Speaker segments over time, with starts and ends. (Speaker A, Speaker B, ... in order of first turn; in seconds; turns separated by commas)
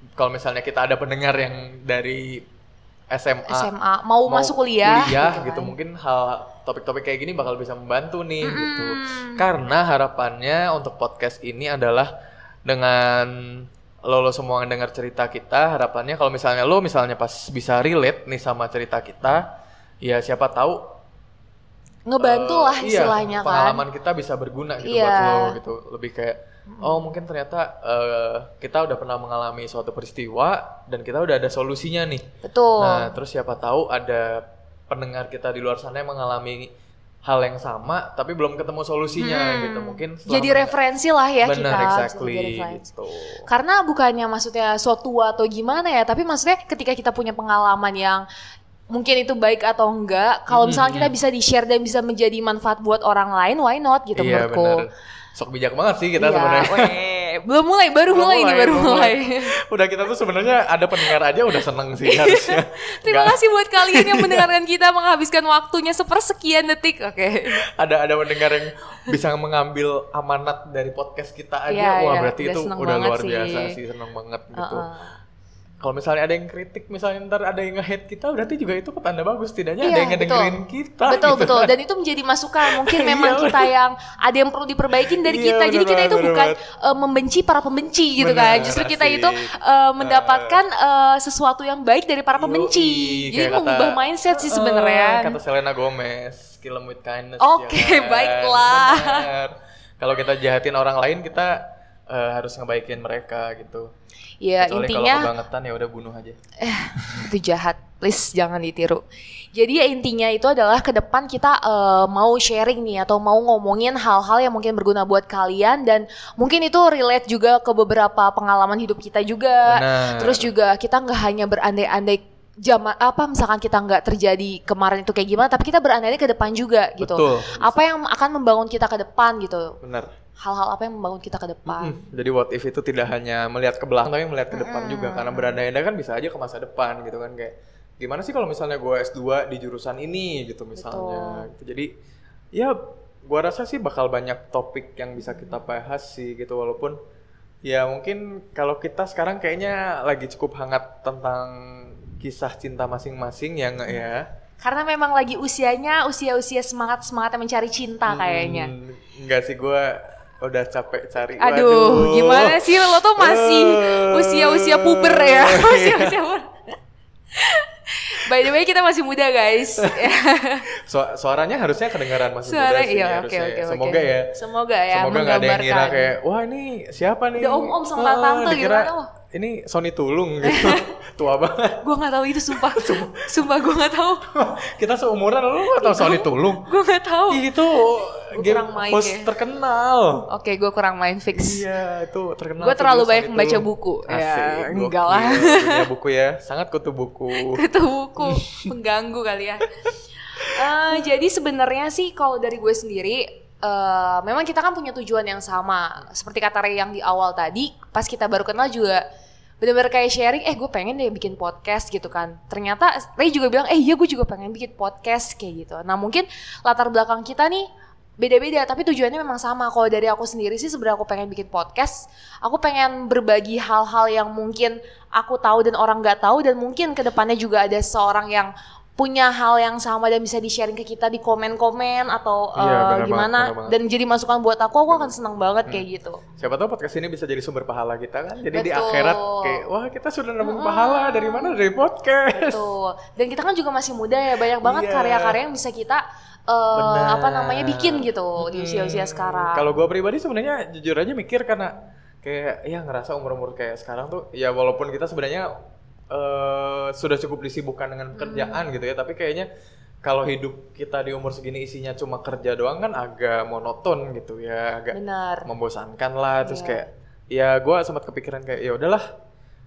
Speaker A: 0.2-2.4, Speaker A: 3.1-3.7, Speaker B: 3.5-5.7, Speaker A: 4.2-12.1, Speaker B: 8.4-9.5, Speaker A: 12.6-19.4, Speaker A: 20.0-20.8, Speaker B: 22.1-23.8, Speaker A: 22.2-32.3, Speaker B: 24.8-25.6, Speaker B: 26.7-27.2, Speaker B: 32.4-33.1, Speaker A: 32.8-36.7, Speaker A: 37.2-40.7, Speaker B: 39.2-42.8, Speaker A: 41.4-43.5, Speaker B: 43.5-48.2, Speaker B: 48.9-54.9, Speaker A: 50.5-51.1, Speaker A: 54.1-57.0, Speaker B: 56.2-59.5, Speaker A: 58.1-64.5, Speaker B: 62.0-67.6, Speaker A: 67.7-74.8, Speaker B: 71.7-73.8, Speaker B: 74.5-75.2, Speaker A: 75.8-81.7, Speaker B: 79.8-80.5, Speaker B: 81.0-95.4, Speaker A: 82.6-83.7, Speaker A: 85.2-86.6, Speaker A: 88.2-89.5, Speaker A: 90.0-90.6, Speaker A: 92.3-103.9, Speaker B: 97.4-99.3, Speaker B: 104.4-105.3, Speaker A: 104.6-106.4, Speaker B: 106.6-129.8, Speaker A: 119.7-120.5, Speaker A: 127.0-127.8, Speaker A: 129.8-130.1, Speaker B: 130.4-132.0, Speaker A: 131.7-141.9, Speaker B: 134.5-135.6, Speaker B: 140.8-141.4, Speaker A: 142.5-147.0, Speaker A: 147.6-154.3, Speaker B: 154.6-158.7, Speaker A: 158.1-166.2, Speaker B: 161.4-166.5, Speaker B: 167.3-170.7, Speaker A: 170.8-174.3, Speaker B: 172.4-176.1, Speaker A: 174.9-181.8, Speaker B: 177.3-179.1, Speaker B: 180.4-180.8, Speaker B: 181.8-184.2, Speaker A: 182.5-183.3, Speaker A: 184.3-186.7, Speaker B: 185.8-187.4, Speaker A: 187.3-190.3, Speaker B: 188.3-189.3, Speaker B: 190.3-191.6, Speaker A: 191.3-197.6, Speaker B: 192.6-195.9, Speaker B: 197.3-199.6, Speaker A: 198.2-198.7, Speaker B: 200.5-209.0, Speaker B: 209.6-217.7, Speaker B: 218.2-236.2, Speaker A: 232.6-233.8, Speaker A: 234.9-235.8, Speaker A: 236.3-242.6, Speaker B: 238.5-239.6, Speaker B: 240.4-241.7, Speaker B: 242.3-249.7, Speaker A: 244.6-245.4, Speaker A: 246.7-255.5, Speaker A: 256.1-259.5, Speaker B: 258.1-258.6, Speaker A: 260.0-269.0, Speaker B: 264.9-265.5, Speaker B: 266.4-266.8